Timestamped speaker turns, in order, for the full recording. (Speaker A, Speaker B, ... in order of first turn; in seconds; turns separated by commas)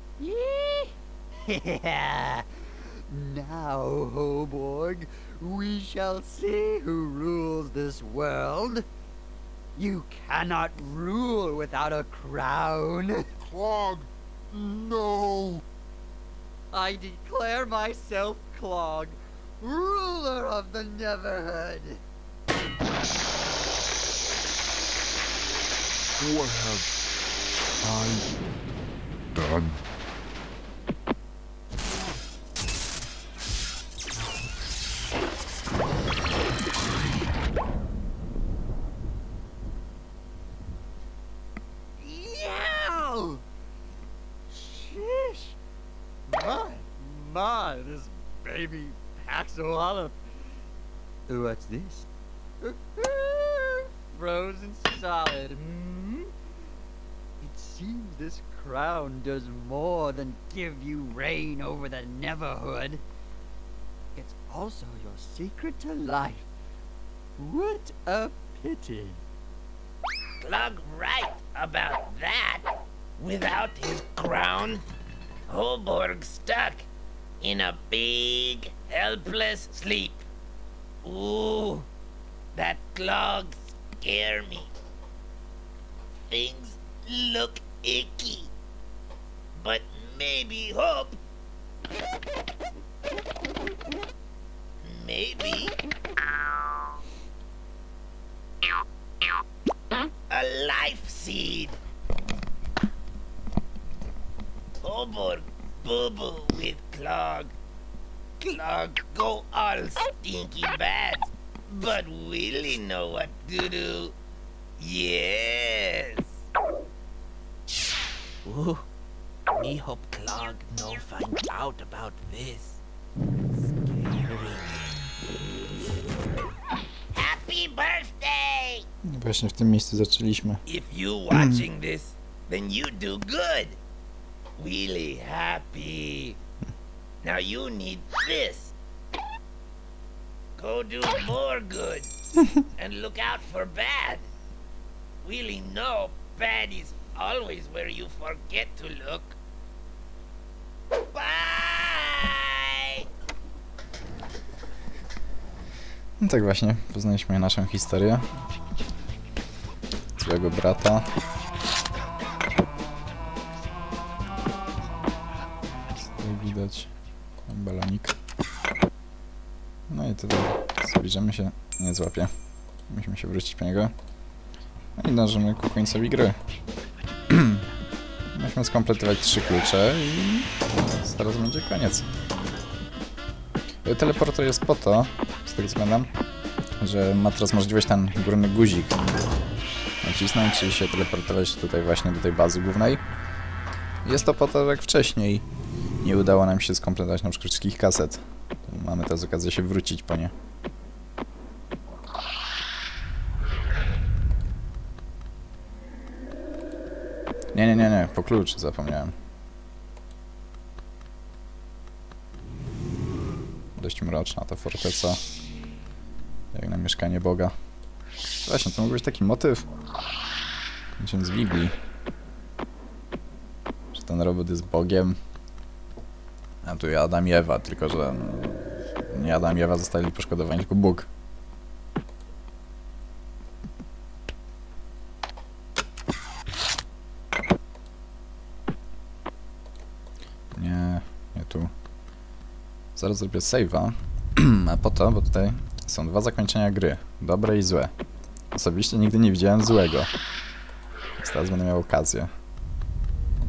Speaker A: 0.2-8.9, Speaker A: 9.8-13.3, Speaker B: 13.4-15.6, Speaker A: 16.7-22.0, Speaker B: 26.2-26.9, Speaker B: 27.8-28.3, Speaker B: 29.3-29.8, Speaker A: 42.0-43.4, Speaker A: 44.5-45.6, Speaker A: 46.3-50.2, Speaker A: 51.3-52.1, Speaker A: 52.6-56.3, Speaker A: 57.4-63.0, Speaker A: 64.2-66.5, Speaker A: 67.4-69.2, Speaker C: 70.4-74.8, Speaker C: 75.5-76.9, Speaker C: 77.4-80.2, Speaker C: 81.0-81.9, Speaker C: 82.5-84.7, Speaker C: 86.3-88.5, Speaker C: 89.5-91.2, Speaker C: 94.8-95.8, Speaker C: 100.3-101.8, Speaker C: 104.8-107.5, Speaker C: 108.4-114.2, Speaker C: 114.8-116.3, Speaker C: 118.5-118.8, Speaker C: 119.6-122.8, Speaker C: 123.8-124.9, Speaker C: 127.1-128.8, Speaker D: 129.1-130.6, Speaker C: 130.7-133.8, Speaker D: 131.3-131.6, Speaker C: 134.6-136.4, Speaker C: 137.2-138.7, Speaker C: 140.6-142.1, Speaker C: 142.8-144.3, Speaker C: 145.2-149.4, Speaker C: 151.1-153.1, Speaker D: 156.2-158.2, Speaker D: 160.2-161.1, Speaker D: 166.0-166.9, Speaker D: 167.5-168.2, Speaker D: 169.9-172.3, Speaker D: 172.9-173.9, Speaker D: 175.0-176.4, Speaker D: 177.3-177.7, Speaker D: 178.3-182.1, Speaker D: 183.8-186.1, Speaker D: 186.8-189.0, Speaker D: 190.0-193.0, Speaker D: 194.0-195.5, Speaker D: 196.0-200.3, Speaker D: 207.5-209.1, Speaker D: 213.8-215.2, Speaker D: 216.5-217.5, Speaker D: 218.4-219.7, Speaker D: 221.0-221.8, Speaker D: 223.9-225.2, Speaker D: 226.6-231.1, Speaker D: 240.6-241.7, Speaker D: 242.9-247.9, Speaker D: 248.5-250.1, Speaker D: 251.2-252.3